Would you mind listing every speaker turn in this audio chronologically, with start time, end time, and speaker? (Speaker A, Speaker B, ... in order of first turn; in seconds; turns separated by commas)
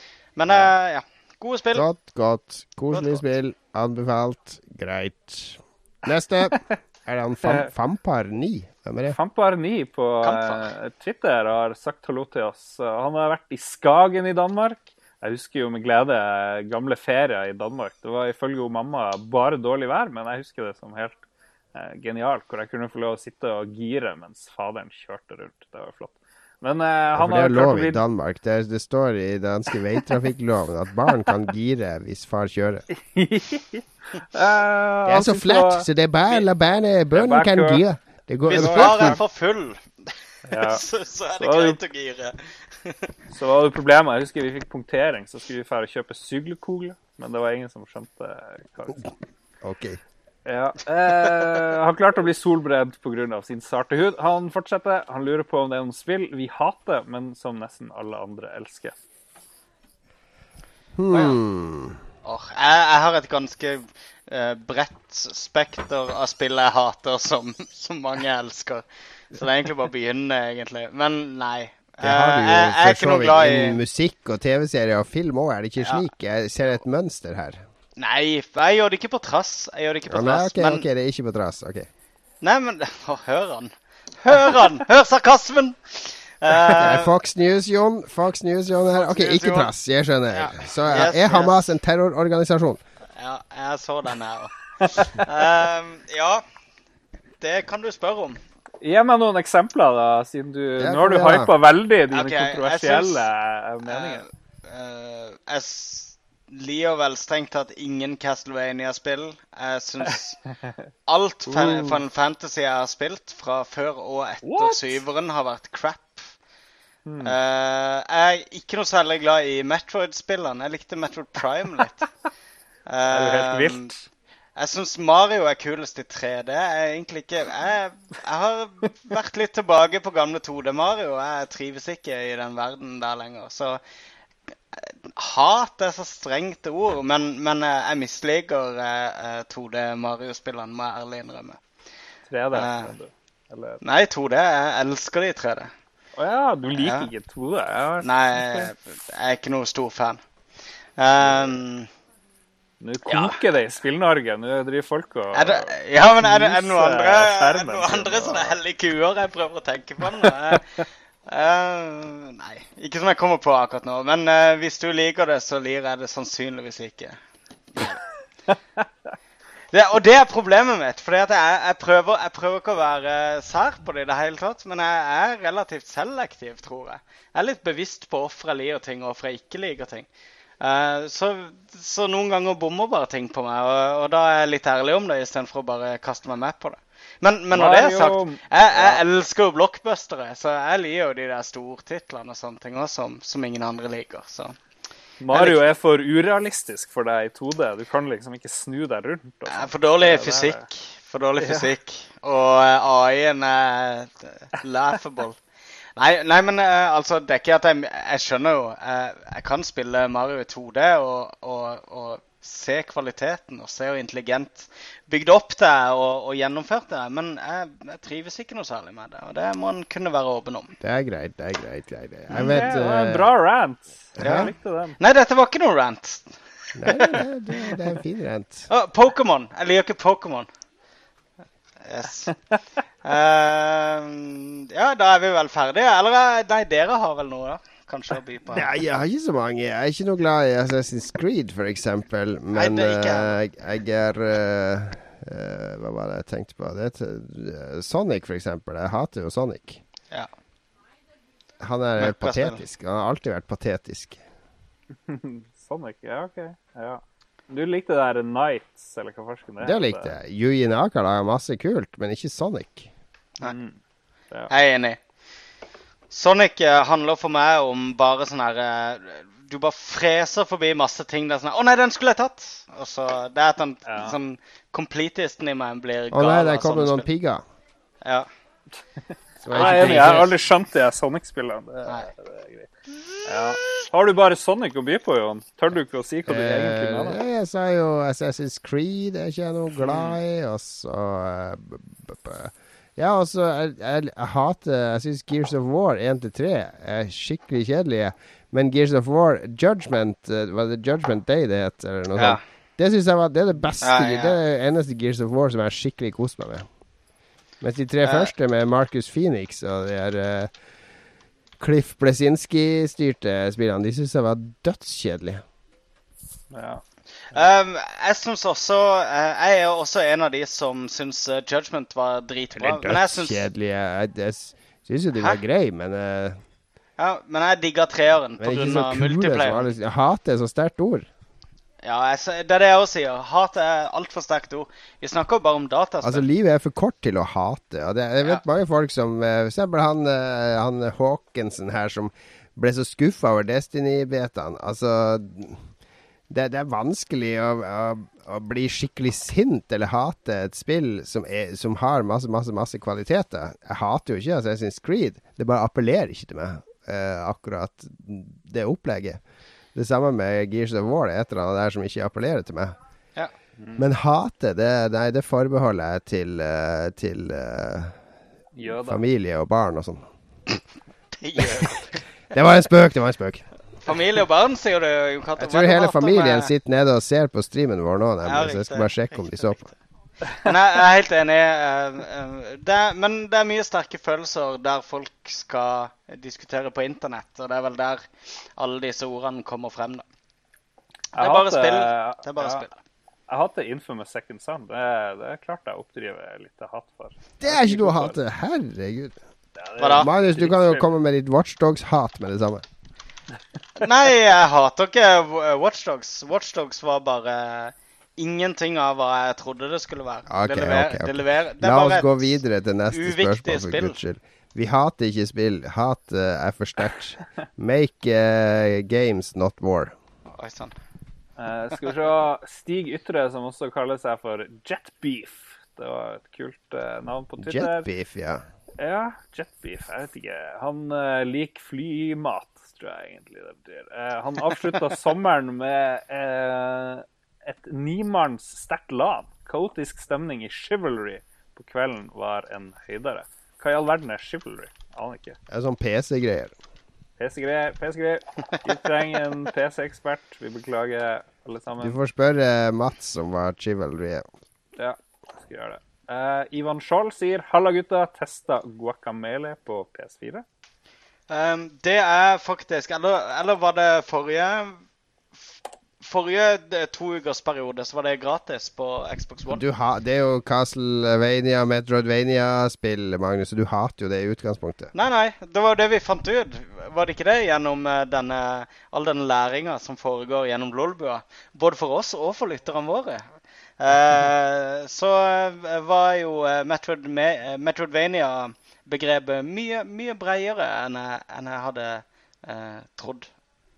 Speaker A: 0.4-1.9, Speaker B: 1.8-9.2, Speaker A: 2.9-3.2, Speaker C: 9.1-21.2, Speaker A: 10.2-10.7, Speaker C: 21.8-28.0, Speaker B: 27.1-32.9, Speaker C: 32.9-36.5, Speaker B: 35.1-39.2, Speaker C: 37.1-37.8, Speaker C: 38.5-39.2, Speaker A: 38.5-43.1, Speaker C: 40.5-40.8, Speaker C: 41.4-41.8, Speaker C: 43.3-49.1, Speaker B: 49.6-50.0, Speaker C: 50.5-59.0, Speaker B: 61.0-62.0, Speaker A: 61.1-61.4, Speaker A: 62.2-73.8, Speaker B: 72.0-77.6, Speaker A: 78.0-80.9, Speaker B: 80.1-81.9, Speaker A: 82.4-87.2, Speaker B: 86.7-92.8, Speaker A: 88.8-89.7, Speaker A: 90.3-91.7, Speaker A: 93.2-96.4, Speaker A: 97.4-98.4, Speaker C: 98.8-104.2, Speaker B: 100.8-101.5, Speaker A: 102.1-103.3, Speaker A: 103.8-110.4, Speaker A: 111.1-116.3, Speaker C: 111.5-112.0, Speaker C: 114.4-115.0, Speaker C: 117.0-117.3, Speaker A: 117.2-122.0, Speaker A: 122.9-123.9, Speaker C: 123.1-124.0, Speaker A: 124.6-133.8, Speaker A: 134.7-141.6, Speaker C: 142.3-143.8, Speaker A: 142.5-142.9, Speaker A: 143.8-145.7, Speaker C: 146.2-148.7, Speaker A: 146.8-147.1, Speaker A: 148.0-150.2, Speaker A: 151.0-151.9, Speaker C: 151.3-151.5, Speaker C: 152.8-158.6, Speaker A: 153.1-153.4, Speaker A: 155.3-160.7, Speaker C: 160.2-160.6, Speaker A: 161.3-167.2, Speaker A: 169.7-180.1, Speaker A: 180.6-194.6, Speaker C: 187.5-189.0, Speaker C: 195.2-200.7, Speaker A: 195.3-195.6, Speaker A: 199.5-205.4, Speaker C: 201.4-201.7, Speaker A: 206.0-220.8, Speaker B: 220.8-223.3, Speaker C: 222.3-225.0, Speaker B: 224.2-224.5, Speaker A: 224.2-226.4, Speaker B: 226.8-228.7, Speaker A: 226.9-227.2, Speaker A: 228.7-230.5, Speaker A: 231.8-232.3, Speaker A: 233.0-238.7, Speaker B: 238.5-249.8, Speaker A: 242.5-243.4, Speaker B: 251.6-254.2, Speaker A: 252.0-252.6, Speaker C: 255.1-260.1, Speaker B: 259.6-262.9, Speaker C: 263.4-263.8, Speaker A: 264.5-265.0, Speaker A: 266.1-277.1, Speaker C: 273.9-274.2, Speaker B: 276.1-277.4, Speaker B: 279.4-280.3, Speaker C: 279.5-282.7, Speaker A: 279.5-280.2, Speaker C: 283.2-287.2, Speaker B: 286.3-306.7, Speaker A: 303.8-304.4, Speaker B: 307.6-310.5, Speaker A: 308.0-308.3, Speaker B: 311.6-315.4, Speaker C: 316.5-316.8, Speaker A: 317.3-323.5, Speaker B: 322.6-326.4, Speaker A: 327.0-329.7, Speaker B: 328.4-331.1, Speaker A: 331.8-336.2, Speaker B: 336.0-345.6, Speaker B: 346.3-359.2, Speaker B: 359.8-362.8, Speaker C: 363.6-363.8, Speaker B: 363.8-368.0, Speaker C: 368.6-369.0, Speaker B: 368.7-370.1, Speaker A: 371.2-372.0, Speaker B: 372.3-373.5, Speaker A: 373.9-376.5, Speaker B: 375.4-379.7, Speaker A: 378.2-378.9, Speaker A: 380.3-390.1, Speaker C: 391.1-392.6, Speaker A: 391.2-392.8, Speaker C: 393.3-398.2, Speaker B: 397.4-399.1, Speaker C: 399.6-400.9, Speaker A: 399.8-400.1, Speaker B: 399.8-402.6, Speaker A: 403.8-412.2, Speaker B: 410.3-419.9, Speaker A: 412.9-414.0, Speaker A: 420.4-420.8, Speaker C: 421.4-427.9, Speaker B: 427.4-428.4, Speaker C: 428.8-445.4, Speaker B: 445.5-446.5, Speaker C: 447.2-452.0, Speaker B: 451.8-454.3, Speaker C: 454.8-460.4, Speaker A: 461.3-464.8, Speaker A: 466.0-469.6, Speaker B: 469.5-474.9, Speaker A: 474.9-493.3